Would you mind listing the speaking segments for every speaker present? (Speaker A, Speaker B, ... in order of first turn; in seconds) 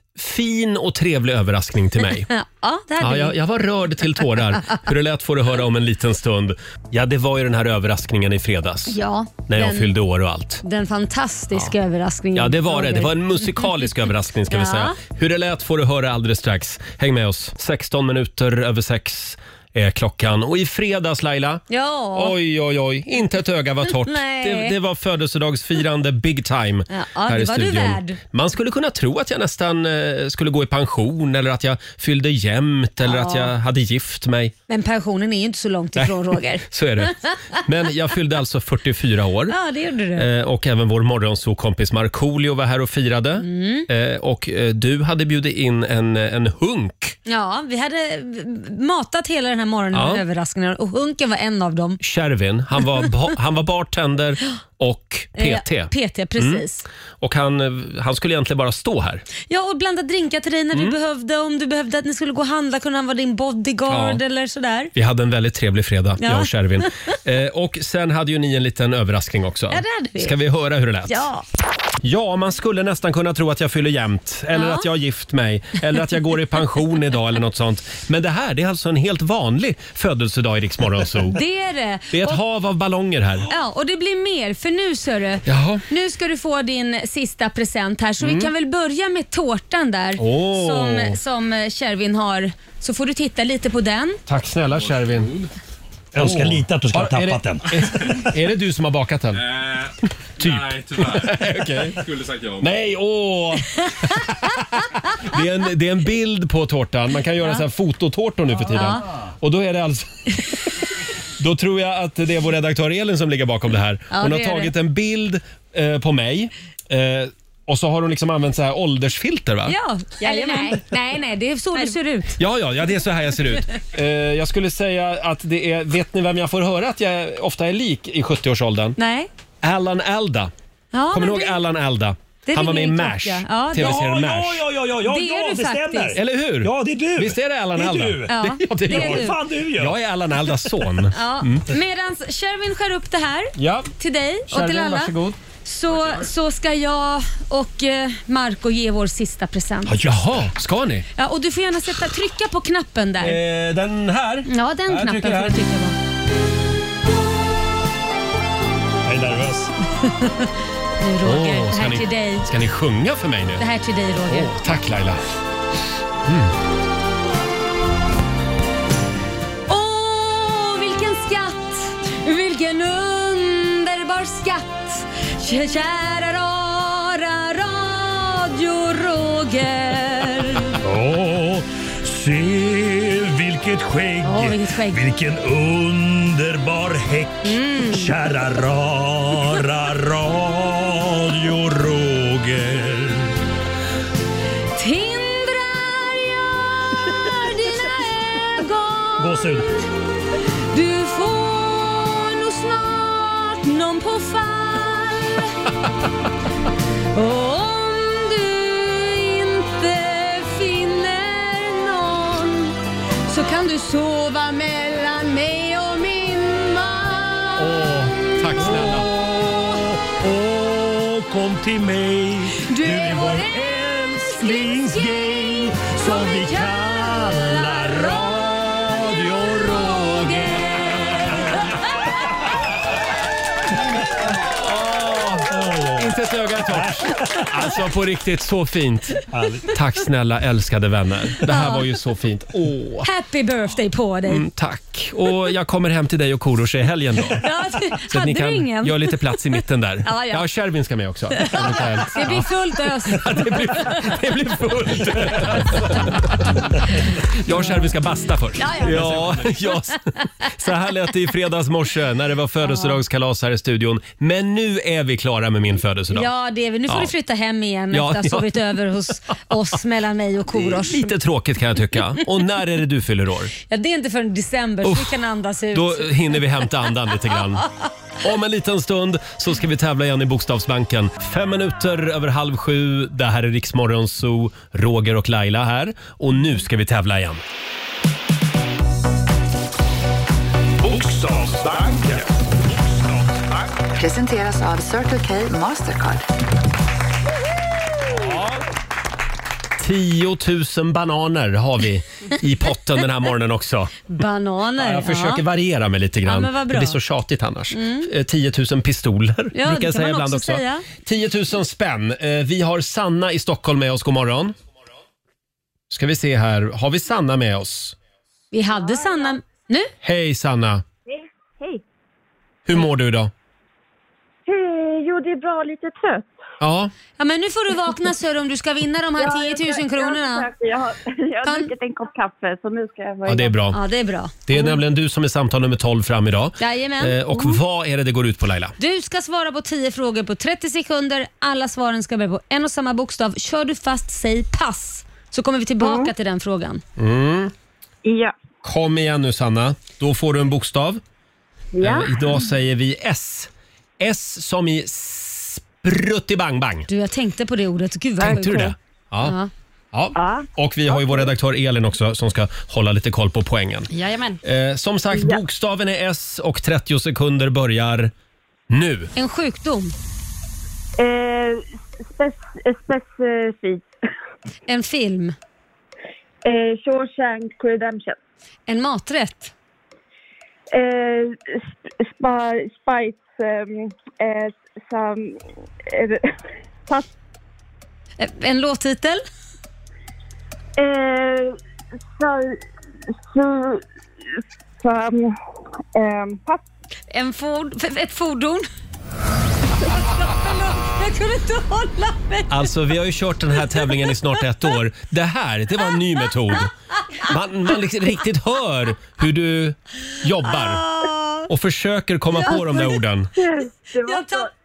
Speaker A: 0.1-2.3, 3.0-10.6, 12.3-34.5, 36.0-39.5, 40.2-47.2, 49.9-50.2, 52.0-56.6, 57.2-59.2, 63.9-64.2, 64.9-71.3, 72.0-81.4, 82.1-83.5, 85.5-85.8, 88.2-88.5, 90.2-91.2, 94.3-95.5, 96.1-99.5, 100.4-110.7, 111.4-119.8, 122.4-129.0, 129.6-130.5, 131.1-134.6, 136.1-141.7, 143.6-143.9, 144.5-145.4, 145.9-146.3, 149.9-151.1, 153.2-155.6, 161.2-163.6, 164.3-165.2, 166.2-166.5, 218.2-219.1, 234.5-243.1, 244.3-247.4, 248.1-252.5, 253.0-256.4, 257.3-266.3, 266.9-267.1, 267.9-268.8, 270.5-273.5, 274.8-275.2, 275.7-277.6, 278.2-287.4, 298.1-298.5, 299.8-304.1, 304.8-314.6, 315.9-317.9, 320.0-320.8, 322.7-323.3, 326.6-326.9, 333.2-333.8, 334.5-338.8, 347.0-347.5, 348.6-351.0, 351.8-356.9, 358.2-359.4, 359.9-363.9, 364.4-368.1, 368.7-369.1, 402.5-410.9, 411.5-413.3
Speaker B: 2.3-3.4, 8.9-9.9, 10.6-13.7, 14.5-15.0, 21.7-22.4, 24.0-24.8, 26.9-28.2, 33.0-33.5, 34.7-37.6, 39.5-40.3, 43.4-43.9, 47.2-52.0, 55.4-56.8, 59.5-64.9, 66.2-67.1, 69.7-70.3, 71.1-71.5, 74.5-74.9, 81.3-82.4, 83.5-94.2, 103.8-104.6, 108.7-109.0, 114.1-114.7, 119.7-122.4, 129.0-129.3, 130.9-131.6, 132.4-134.1, 135.0-136.2, 138.3-139.4, 141.1-150.1, 151.2-153.4, 154.4-156.0, 160.2-160.5, 161.0-162.5, 163.6-164.6, 169.7-180.8, 184.2-185.0, 187.4-188.1, 194.8-199.9, 200.7-205.6, 207.1-218.7, 222.6-231.9, 241.4-241.9, 243.0-244.5, 247.4-250.4, 251.3-254.1, 258.6-259.5, 262.6-263.0, 266.1-271.1, 273.7-276.4, 304.1-305.4, 306.2-307.0, 307.7-308.1, 309.5-310.9, 318.5-319.9, 327.2-330.5, 331.4-331.7, 333.7-334.7, 336.6-337.6, 338.8-346.8, 356.9-359.5, 369.1-369.9, 374.7-375.3, 378.7-379.5, 388.2-389.2, 397.1-398.7, 399.8-402.7, 403.7-404.0, 410.5-411.5, 412.3-412.8, 414.0-414.5
Speaker C: 96.1-98.3, 100.4-101.6, 133.7-138.3, 138.8-139.9, 140.5-140.7, 159.1-159.7, 180.8-193.3, 199.2-199.7, 217.6-231.8, 235.5-236.1, 236.7-237.4, 239.3-239.7, 259.0-259.3
Speaker D: 290.8-293.8
Speaker E: 293.9-296.2
Speaker F: 318.8-319.3, 321.1-321.8, 324.4-326.4, 329.2-333.7, 345.8-346.1, 348.0-348.3, 351.8-352.1, 360.1-361.3, 365.1-365.4, 371.0-373.9, 376.4-378.2, 380.7-386.3, 390.8-391.6, 392.2-392.6, 393.3-393.8, 394.8-395.4, 395.9-396.6, 412.4-414.5